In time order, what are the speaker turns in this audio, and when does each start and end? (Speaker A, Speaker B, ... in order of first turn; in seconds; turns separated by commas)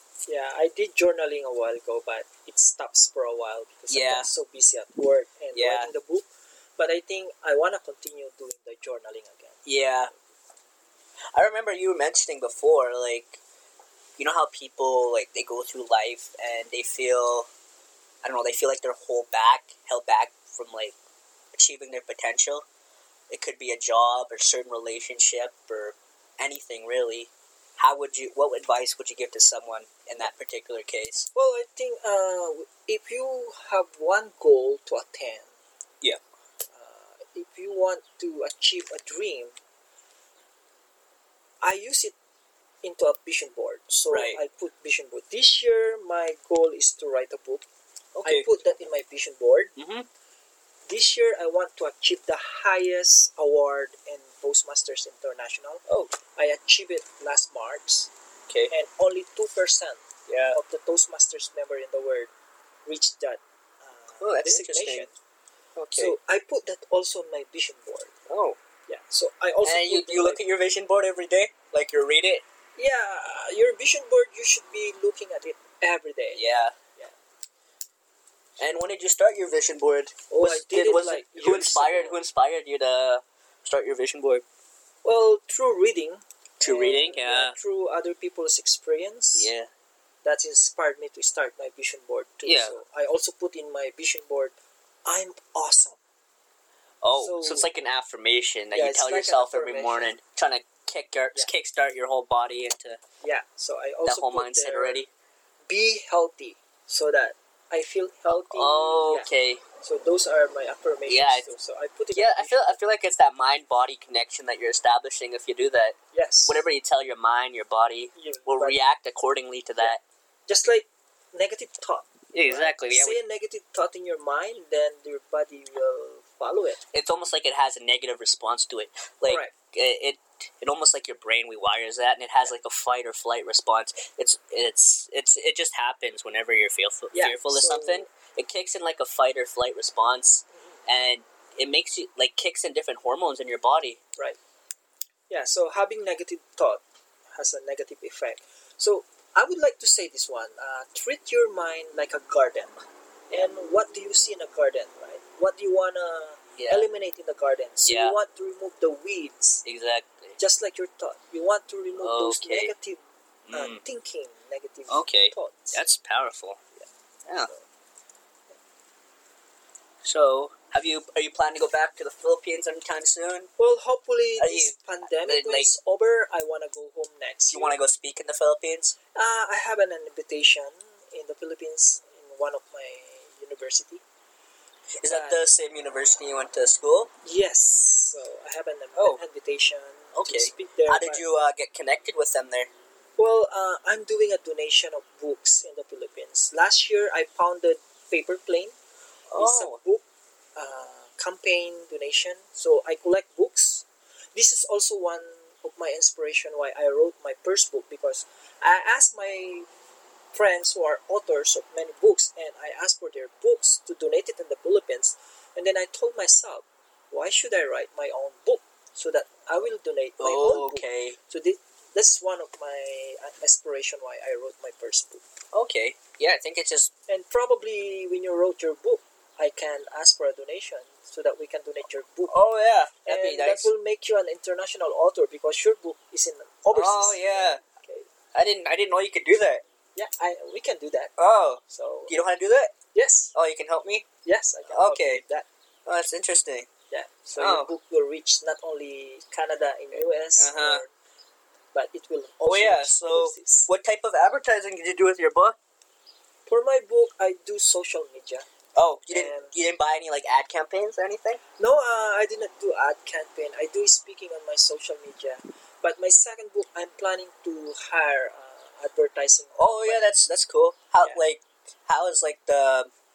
Speaker A: 0.3-6.3, Speaker B: 3.9-4.3, Speaker B: 5.5-5.9, Speaker A: 6.8-9.6, Speaker B: 9.7-10.1, Speaker B: 11.3-13.4, Speaker B: 14.2-17.5, Speaker B: 18.2-20.9, Speaker B: 21.5-22.6, Speaker B: 23.3-31.3, Speaker A: 31.4-35.5, Speaker A: 36.7-39.5, Speaker A: 41.6-42.1, Speaker A: 42.8-47.6, Speaker B: 44.1-44.4, Speaker B: 48.2-48.5, Speaker A: 48.2-49.7, Speaker B: 49.8-50.1, Speaker A: 50.9-58.1, Speaker A: 58.7-62.3, Speaker B: 60.3-60.6, Speaker A: 62.9-65.1, Speaker B: 64.2-65.1, Speaker B: 65.8-66.2, Speaker A: 66.0-68.1, Speaker B: 68.3-68.6, Speaker A: 68.9-70.4, Speaker B: 69.6-72.4, Speaker A: 72.8-76.4, Speaker B: 76.3-76.8, Speaker B: 78.6-84.5, Speaker A: 80.3-82.2, Speaker A: 85.0-89.5, Speaker B: 86.6-87.6, Speaker B: 89.3-89.7, Speaker A: 90.2-94.5, Speaker B: 92.4-92.8, Speaker A: 95.1-96.0, Speaker B: 97.0-103.0, Speaker A: 97.2-97.7, Speaker A: 98.7-100.1, Speaker A: 103.2-105.0, Speaker B: 104.0-105.1, Speaker A: 105.7-109.3, Speaker B: 108.5-109.6, Speaker A: 109.8-112.8, Speaker B: 111.1-111.5, Speaker B: 112.1-120.0, Speaker A: 116.1-116.6, Speaker A: 118.2-118.8, Speaker A: 120.5-126.8, Speaker B: 122.3-123.2, Speaker B: 126.9-144.0, Speaker A: 129.3-129.5, Speaker A: 137.1-138.1, Speaker A: 145.3-146.8, Speaker A: 147.4-152.7, Speaker A: 153.3-159.6, Speaker B: 156.6-156.9, Speaker B: 157.8-158.2, Speaker B: 159.6-160.4, Speaker A: 160.4-163.0, Speaker B: 162.0-162.7, Speaker B: 163.5-163.8, Speaker A: 163.5-165.8, Speaker B: 164.9-166.6, Speaker B: 170.0-173.5, Speaker A: 173.6-177.8, Speaker B: 174.4-175.7, Speaker B: 177.5-178.9, Speaker A: 179.2-184.0, Speaker B: 185.0-187.1, Speaker A: 185.1-185.4, Speaker A: 187.2-191.2, Speaker B: 190.1-192.7, Speaker A: 193.2-198.8, Speaker B: 199.3-199.8, Speaker A: 199.4-200.0, Speaker A: 200.6-209.7, Speaker A: 210.3-225.2, Speaker B: 220.2-221.2, Speaker B: 225.5-226.9, Speaker A: 227.1-232.3, Speaker B: 232.3-233.7, Speaker A: 233.1-238.1, Speaker B: 236.7-237.6, Speaker B: 238.3-239.6, Speaker A: 240.0-241.1, Speaker B: 241.2-242.7, Speaker A: 241.7-242.1, Speaker A: 242.9-243.3, Speaker B: 243.3-244.1, Speaker A: 244.2-245.5, Speaker B: 244.7-245.2, Speaker B: 245.9-246.7, Speaker A: 246.9-250.9, Speaker B: 247.3-247.7, Speaker B: 249.9-250.8, Speaker A: 251.7-253.7, Speaker B: 252.4-255.6, Speaker A: 256.5-258.5, Speaker B: 258.8-261.4, Speaker A: 259.1-259.5, Speaker A: 261.6-270.1, Speaker B: 269.6-272.9